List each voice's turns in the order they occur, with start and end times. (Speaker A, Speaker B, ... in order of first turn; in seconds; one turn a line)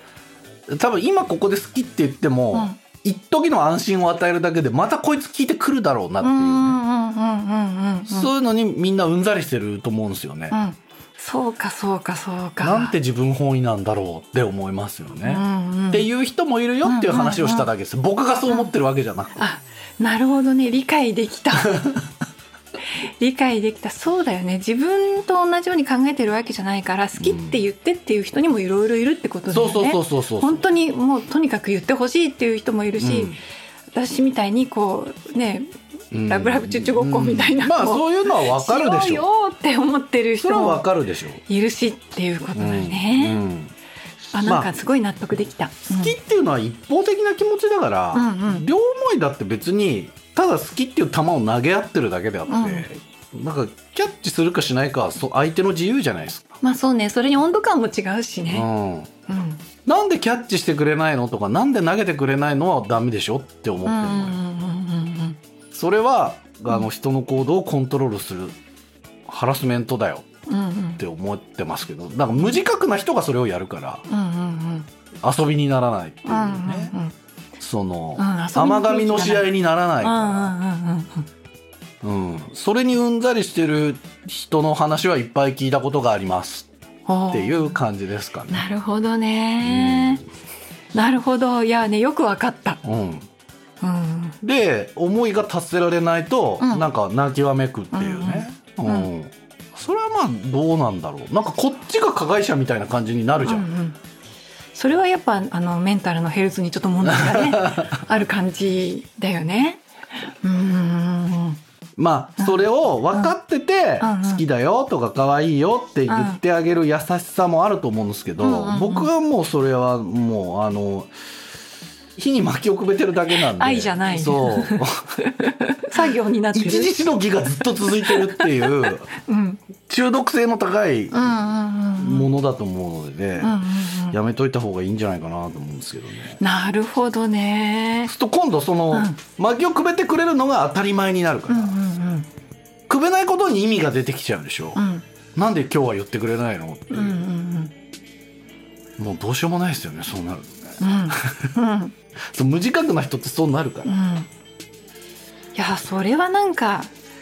Speaker A: 0.7-6.8
Speaker B: 2.5-2.8
Speaker B: 6.2-8.3
Speaker A: 8.1-10.6
Speaker B: 10.5-12.9
Speaker A: 12.6-19.4
Speaker B: 15.2-16.1
Speaker B: 16.8-17.7
Speaker B: 19.4-21.8
Speaker B: 23.2-33.4
Speaker A: 27.2-27.6
Speaker A: 29.5-30.7
Speaker A: 33.0-33.4
Speaker B: 33.9-35.7
Speaker A: 36.1-39.2
Speaker B: 36.3-40.8
Speaker A: 40.4-41.4
Speaker B: 41.5-43.4
Speaker A: 42.6-43.7
Speaker B: 44.3-46.1
Speaker A: 44.4-44.7
Speaker A: 45.9-56.4
Speaker B: 48.1-48.7
Speaker B: 52.5-52.9
Speaker B: 56.6-58.7
Speaker A: 58.5-59.1
Speaker B: 59.3-59.6
Speaker A: 59.9-64.4
Speaker B: 63.9-65.4
Speaker A: 65.7-68.6
Speaker A: 69.3-70.2
Speaker B: 70.5-71.0
Speaker A: 71.0-74.0
Speaker B: 74.1-74.9
Speaker A: 75.2-76.9
Speaker B: 76.3-77.1
Speaker A: 77.6-80.5
Speaker B: 78.2-79.5
Speaker B: 80.0-81.3
Speaker A: 82.0-86.7
Speaker B: 87.1-87.8
Speaker A: 87.3-88.7
Speaker B: 88.5-90.2
Speaker A: 89.6-90.2
Speaker B: 90.9-92.8
Speaker A: 92.8-93.3
Speaker B: 93.8-94.4
Speaker A: 94.4-103.7
Speaker B: 96.6-96.9
Speaker B: 97.9-99.1
Speaker B: 103.4-104.0
Speaker B: 104.8-111.6
Speaker A: 107.0-108.0
Speaker A: 112.0-121.1
Speaker B: 112.4-113.3
Speaker B: 114.0-114.4
Speaker B: 116.1-116.4
Speaker B: 118.4-119.1
Speaker A: 122.2-125.2
Speaker B: 123.5-126.9
Speaker A: 126.5-129.1
Speaker B: 128.1-128.7
Speaker B: 129.2-129.6
Speaker A: 129.9-131.3
Speaker B: 131.1-132.3
Speaker A: 132.0-136.4
Speaker B: 133.4-134.2
Speaker B: 136.4-138.1
Speaker A: 138.1-141.8
Speaker B: 138.9-139.2
Speaker B: 141.5-142.3
Speaker A: 142.9-144.8
Speaker B: 144.8-145.0
Speaker A: 145.3-147.2
Speaker B: 146.9-147.7
Speaker A: 149.0-151.6
Speaker B: 150.8-151.9
Speaker A: 152.3-153.9
Speaker B: 153.8-154.3
Speaker B: 155.6-156.9